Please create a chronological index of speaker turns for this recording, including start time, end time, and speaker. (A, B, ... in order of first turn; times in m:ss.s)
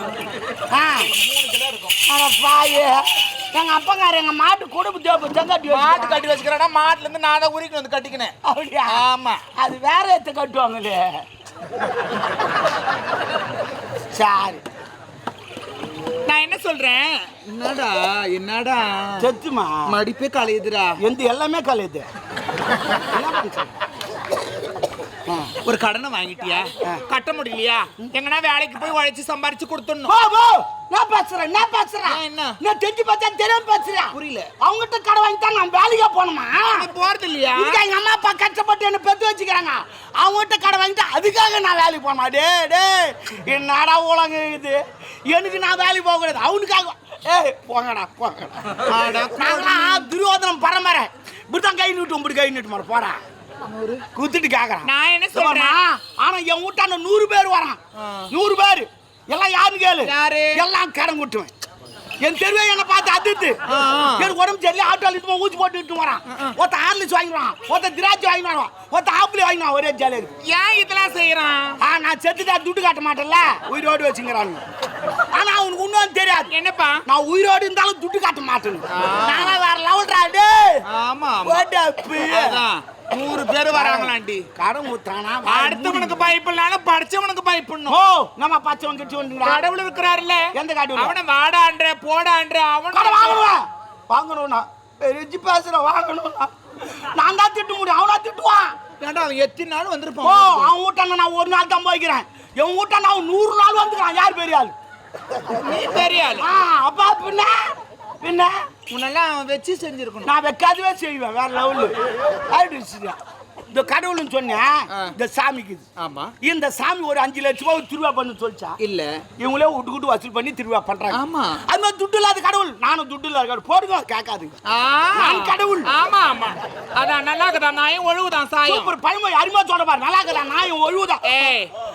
0:00.7-0:01.1 A
0:00.9-0:02.0 B
0:02.0-0:06.3 A
0:05.7-0:08.3 B
0:08.4-0:09.0 A
0:08.9-0:09.4 B
0:09.6-0:11.1 A
0:14.1-0:14.6 A
0:16.2-0:19.3 B
0:19.2-0:20.0 A
0:19.9-0:21.0 B
0:21.0-0:22.0 A
0:23.0-0:23.7 A
0:25.3-0:25.5 A
0:25.6-0:30.1 B
0:30.0-0:36.9 A
0:32.0-0:32.6 B
0:34.1-0:34.5 B
0:36.7-0:37.8 B
0:37.5-0:53.2 A
0:48.8-0:50.1 B
0:53.7-0:54.0 B
0:54.1-0:57.8 A
0:54.8-0:55.8 B
0:58.0-0:58.3 B
0:58.3-1:01.5 A
1:00.0-1:00.6 B
1:02.2-1:03.6 A
1:03.7-1:04.3 B
1:04.2-1:10.3 A
1:06.3-1:06.5 B
1:10.4-1:11.8 B
1:11.8-1:14.6 A
1:15.3-1:16.5 A
1:16.5-1:17.0 B
1:17.0-1:20.8 A
1:18.9-1:19.6 B
1:20.9-1:21.6 B
1:21.4-1:22.6 A
1:22.2-1:24.4 B
1:23.7-1:26.3 A
1:25.4-1:28.0 B
1:27.9-1:29.6 A
1:29.4-1:33.5 B
1:30.5-1:31.1 A
1:32.9-1:38.7 A
1:39.0-1:40.7 B
1:40.2-1:44.7 A
1:45.5-1:46.5 B
1:46.4-1:47.6 A
1:48.2-1:48.5 A
1:48.9-1:50.3 B
1:50.2-1:51.9 A
1:52.4-1:53.2 A
1:53.7-1:55.8 A
1:56.0-1:56.3 B
1:56.4-1:58.8 A
1:58.8-1:59.2 B
1:59.4-2:04.6 A
2:01.1-2:01.6 B
2:04.7-2:08.9 B
2:05.1-2:05.9 A
2:08.7-2:11.4 A
2:11.2-2:11.7 B